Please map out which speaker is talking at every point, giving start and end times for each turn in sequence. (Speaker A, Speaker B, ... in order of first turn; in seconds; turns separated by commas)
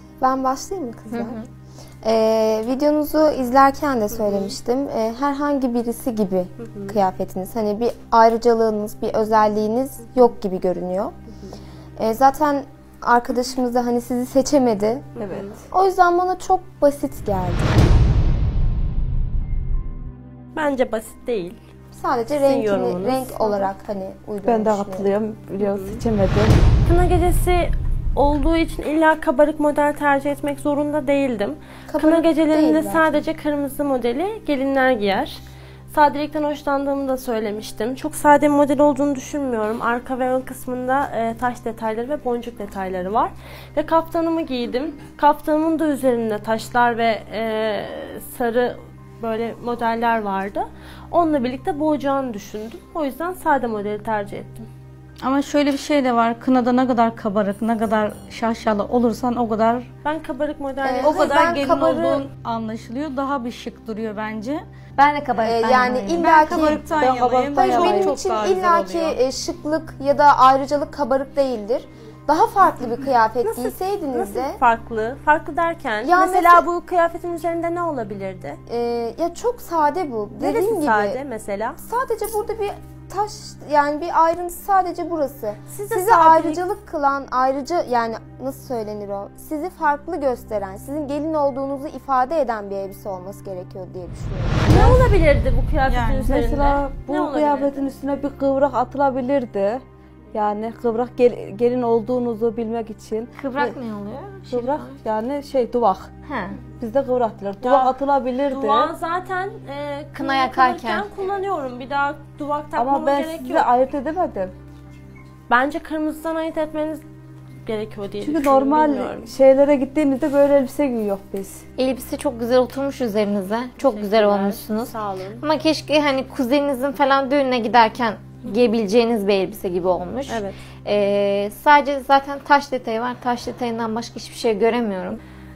Speaker A: 0.2-1.4, Speaker B: 1.1-1.4, Speaker A: 2.0-11.1, Speaker C: 4.2-4.6, Speaker C: 6.6-7.0, Speaker A: 12.0-15.1, Speaker C: 15.2-15.6, Speaker D: 15.2-15.6, Speaker A: 15.7-17.8, Speaker C: 20.6-21.6, Speaker A: 21.9-25.1, Speaker C: 22.3-23.7, Speaker D: 24.4-26.6, Speaker C: 25.6-26.0, Speaker C: 26.9-54.7, Speaker A: 31.9-33.2, Speaker E: 55.2-59.9, Speaker C: 60.0-62.2, Speaker A: 60.8-62.0, Speaker E: 61.0-64.6, Speaker B: 65.0-66.8, Speaker A: 65.4-66.9, Speaker E: 66.2-69.2, Speaker D: 67.0-68.1, Speaker A: 67.5-74.6, Speaker C: 73.4-78.6, Speaker A: 76.0-76.7, Speaker A: 78.7-81.2, Speaker C: 80.4-81.8, Speaker A: 81.8-94.8, Speaker C: 85.7-86.6, Speaker C: 94.6-97.9, Speaker E: 95.9-96.3, Speaker D: 96.2-99.8, Speaker D: 100.3-103.8, Speaker B: 103.4-105.0, Speaker D: 104.5-106.1, Speaker B: 106.3-106.6, Speaker D: 106.8-108.9, Speaker C: 107.6-113.7, Speaker B: 110.2-111.1, Speaker D: 112.8-114.5, Speaker C: 115.5-117.0, Speaker C: 117.7-119.3, Speaker D: 118.2-121.6, Speaker B: 121.8-135.2, Speaker C: 123.9-125.4, Speaker C: 130.3-130.6